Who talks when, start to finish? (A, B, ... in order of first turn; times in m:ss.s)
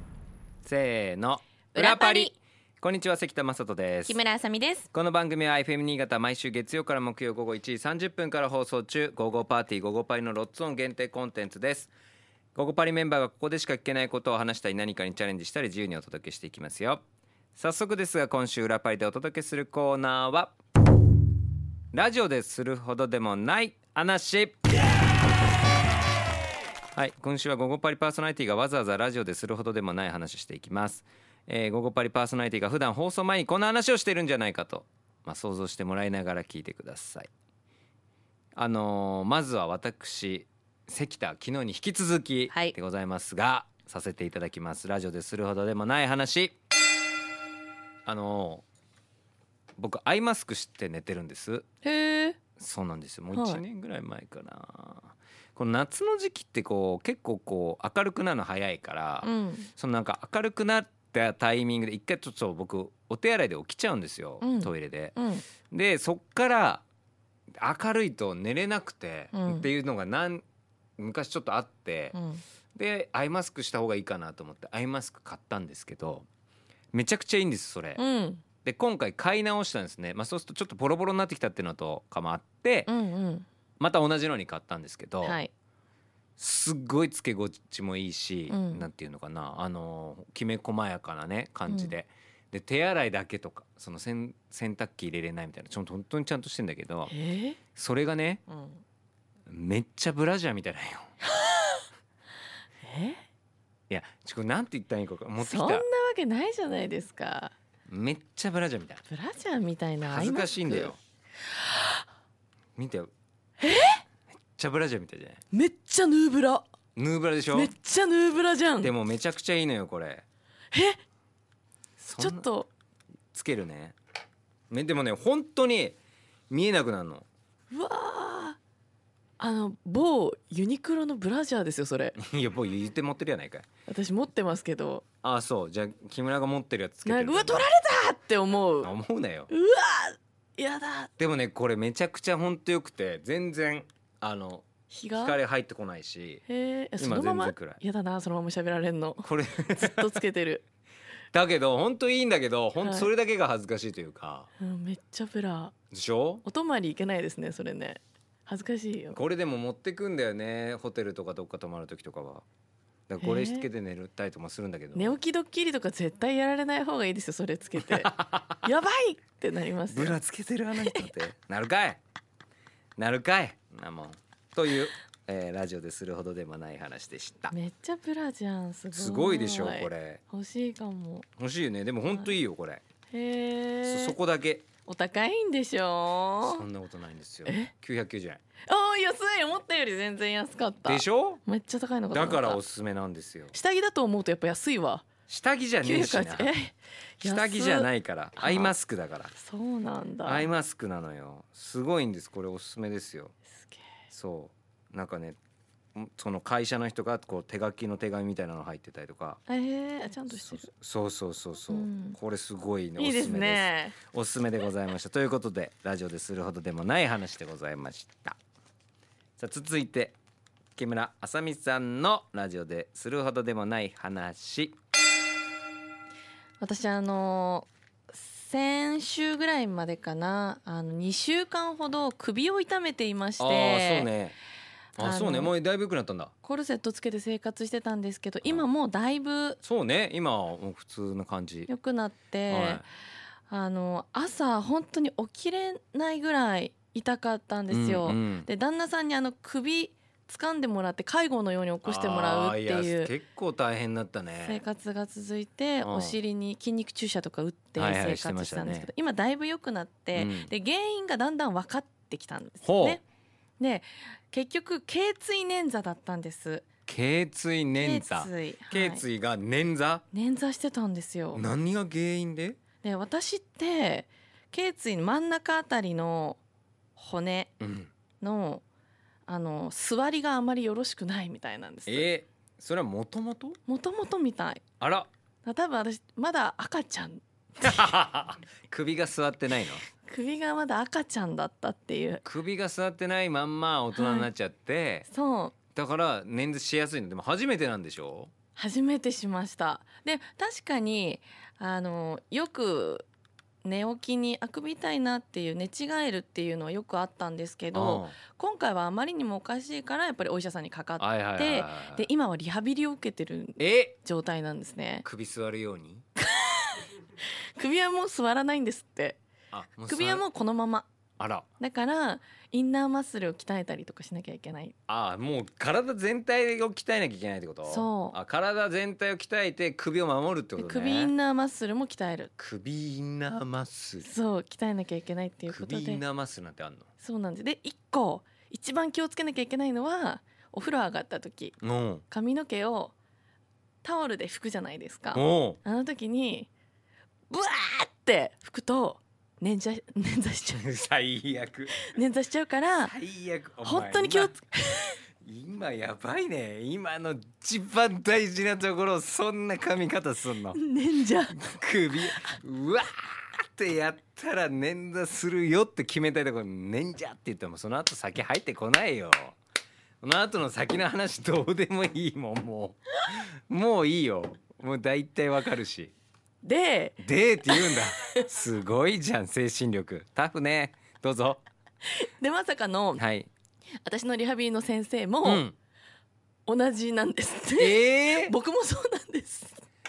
0:00.6-0:04.2 A
0:01.8-0:02.3 B
0:04.1-0:04.8 B
0:04.9-0:11.9 A
0:12.6-0:17.0 A
0:17.6-0:20.5 A
0:21.9-0:24.6 A
0:27.0-0:37.3 A
0:38.6-0:46.6 A
0:48.1-0:48.6 A
0:49.8-0:51.7 A
0:51.8-0:52.4 B
0:52.6-1:05.2 A
0:53.3-0:53.6 B
0:59.2-0:59.7 B
1:04.4-1:05.5 B
1:05.7-1:06.8 A
1:07.6-1:10.4 A
1:09.3-1:09.7 B
1:11.0-1:12.2 A
1:12.1-1:12.4 B
1:12.8-1:16.3 A
1:16.9-1:18.0 A
1:18.0-1:18.4 B
1:18.6-1:22.9 A
1:22.9-1:23.5 B
1:23.8-1:25.4 A
1:25.2-1:25.5 B
1:26.4-1:37.1 A
1:28.5-1:28.9 B
1:31.7-1:31.9 B
1:37.1-1:37.6 B
1:37.8-1:38.4 A
1:38.5-1:38.8 B
1:39.5-1:41.1 A
1:41.3-1:41.8 B
1:42.8-1:43.2 B
1:43.9-1:45.9 A
1:45.4-1:47.6 B
1:47.9-1:49.0 A
1:49.1-1:51.0 B
1:50.1-1:51.0 A
1:51.6-1:52.0 B
1:52.8-1:53.1 A
1:53.6-1:54.0 B
1:54.5-1:55.4 A
1:55.5-1:56.7 B
1:57.0-1:57.7 A
1:57.5-1:58.9 B
1:58.8-2:00.2 A
2:00.7-2:01.0 B
2:02.0-2:02.5 A
2:02.2-2:02.7 B
2:03.3-2:04.0 A
2:04.7-2:06.0 A
2:06.5-2:07.3 A
2:07.7-2:08.6 B
2:09.4-2:12.2 B
2:12.2-2:13.7 A
2:13.9-2:15.0 B
2:15.2-2:17.7 A
2:17.0-2:18.9 B
2:18.8-2:19.5 A
2:19.5-2:21.1 B
2:21.2-2:26.4 A
2:24.9-2:25.4 B
2:26.5-2:30.6 B
2:27.0-2:27.8 A
2:29.2-2:30.1 A
2:31.3-2:34.5 A
2:32.8-2:33.1 B
2:34.6-2:35.7 B
2:35.9-2:36.4 A
2:36.4-2:39.2 B
2:39.1-2:42.4 A
2:43.1-2:45.2 A
2:43.2-2:43.7 B
2:44.9-2:50.2 B
2:47.8-2:48.6 A
2:49.9-2:52.0 A
2:50.8-2:51.1 B
2:53.0-2:57.5 A
2:57.5-3:01.3 B
2:58.9-3:00.2 A
3:01.4-3:02.8 A
3:03.1-3:04.2 B
3:03.8-3:04.7 A
3:04.9-3:06.6 B
3:06.4-3:08.4 A
3:07.5-3:07.7 B
3:08.7-3:12.6 B
3:10.8-3:11.4 A
3:12.1-3:13.6 A
3:13.5-3:15.1 B
3:15.3-3:16.5 A
3:15.8-3:18.7 B
3:17.2-3:19.3 A
3:19.3-3:20.5 B
3:20.2-3:23.4 A
3:24.1-3:25.4 A
3:26.0-3:29.4 A
3:29.5-3:30.7 B
3:30.3-3:38.4 A
3:31.7-3:32.2 B
3:33.0-3:34.0 B
3:39.4-3:40.2 A
3:40.8-3:44.8 A
3:46.6-3:54.1 B
3:53.4-3:54.4 A
3:55.0-3:56.3 A
3:55.0-3:55.5 B
3:56.4-3:59.6 B
3:59.6-4:01.7 A
4:01.7-4:02.9 B
4:02.5-4:02.8 A
4:03.5-4:13.1 B
4:07.7-4:08.5 A
4:11.8-4:14.6 A
4:14.4-4:23.0 B
4:15.8-4:16.2 A
4:17.8-4:18.9 A
4:20.1-4:20.5 A
4:22.6-4:23.0 A
4:23.6-4:26.7 B
4:26.9-4:30.0 A
4:27.8-4:29.0 B
4:30.1-4:31.5 B
4:31.3-4:32.6 A
4:32.8-4:36.4 B
4:37.0-4:37.5 B
4:37.6-4:37.9 A
4:38.2-4:38.6 B
4:39.3-4:42.1 B
4:41.9-4:43.6 A
4:43.7-4:44.6 B
4:44.8-4:45.1 A
4:45.4-4:47.9 B
4:47.6-4:49.8 A
4:50.0-4:52.2 B
4:52.2-4:55.1 A
4:53.9-4:54.3 B
4:55.1-4:55.6 B
4:55.7-4:58.3 A
4:58.6-5:03.1 B
5:03.6-5:15.1 B
5:07.7-5:08.2 A
5:11.0-5:12.1 A
5:13.6-5:14.0 A
5:15.0-5:16.0 A
5:16.2-5:16.9 B
5:17.6-5:19.2 B
5:19.5-5:20.3 A
5:19.9-5:20.9 B
5:21.2-5:21.5 A
5:21.6-5:24.7 B
5:24.9-5:31.1 A
5:27.6-5:28.2 B
5:30.6-5:32.3 B
5:32.4-5:34.1 A
5:34.0-5:36.0 B
5:35.5-5:36.9 A
5:37.0-5:41.6 B
5:41.6-5:42.0 A
5:42.1-5:42.9 B
5:43.8-5:46.5 B
5:45.1-5:45.6 A
5:47.3-5:50.7 B
5:50.5-5:51.9 A
5:51.8-5:53.0 B
5:52.8-5:54.4 A
5:53.6-5:55.0 B
5:55.2-6:00.6 A
6:00.5-6:01.4 B
6:01.3-6:09.4 A
6:10.0-6:15.9 A
6:16.4-6:18.2 B
6:17.0-6:21.4 A
6:21.9-6:23.0 B
6:23.0-6:23.3 A
6:23.8-6:25.5 B
6:25.2-6:25.6 A
6:26.5-6:29.6 B
6:27.6-6:28.3 A